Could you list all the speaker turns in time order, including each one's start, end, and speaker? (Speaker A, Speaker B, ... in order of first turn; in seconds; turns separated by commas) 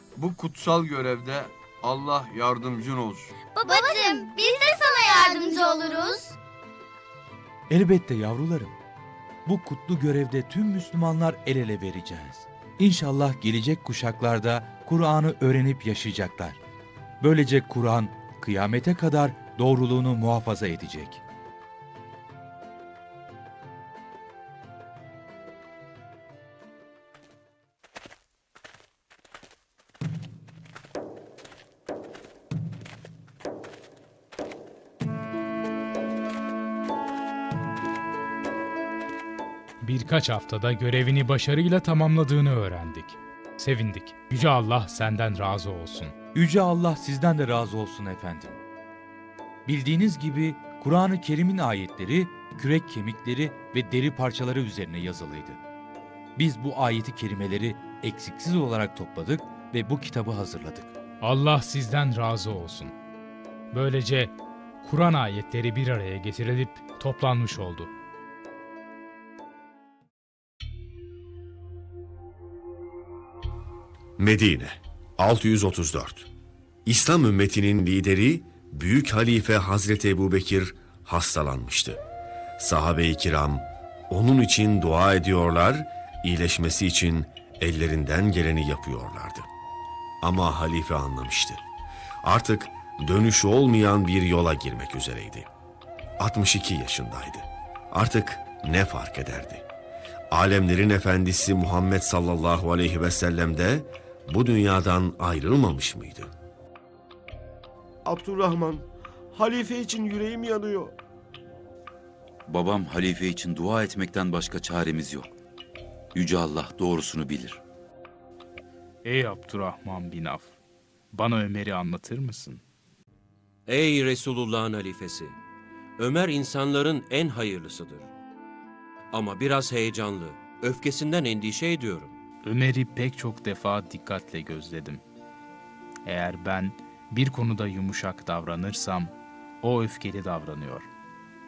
Speaker A: 0.2-3.3, Speaker B: 3.5-6.4, Speaker C: 7.7-8.8, Speaker C: 9.4-16.6, Speaker C: 17.2-21.2, Speaker D: 39.8-46.2, Speaker C: 46.3-48.6, Speaker C: 49.7-55.6, Speaker C: 56.4-61.0, Speaker D: 61.2-62.9, Speaker D: 63.7-67.9, Speaker E: 74.2-76.3, Speaker E: 76.8-82.0, Speaker E: 82.6-89.5, Speaker E: 90.2-91.6, Speaker E: 92.2-95.5, Speaker E: 96.2-99.7, Speaker E: 100.3-106.3, Speaker F: 108.0-111.0, Speaker G: 112.5-115.3, Speaker G: 116.2-117.6, Speaker D: 119.0-120.6, Speaker D: 121.1-122.6, Speaker H: 123.7-125.4, Speaker H: 126.0-128.1, Speaker H: 129.1-132.2, Speaker D: 132.4-135.0, Speaker D: 136.1-140.9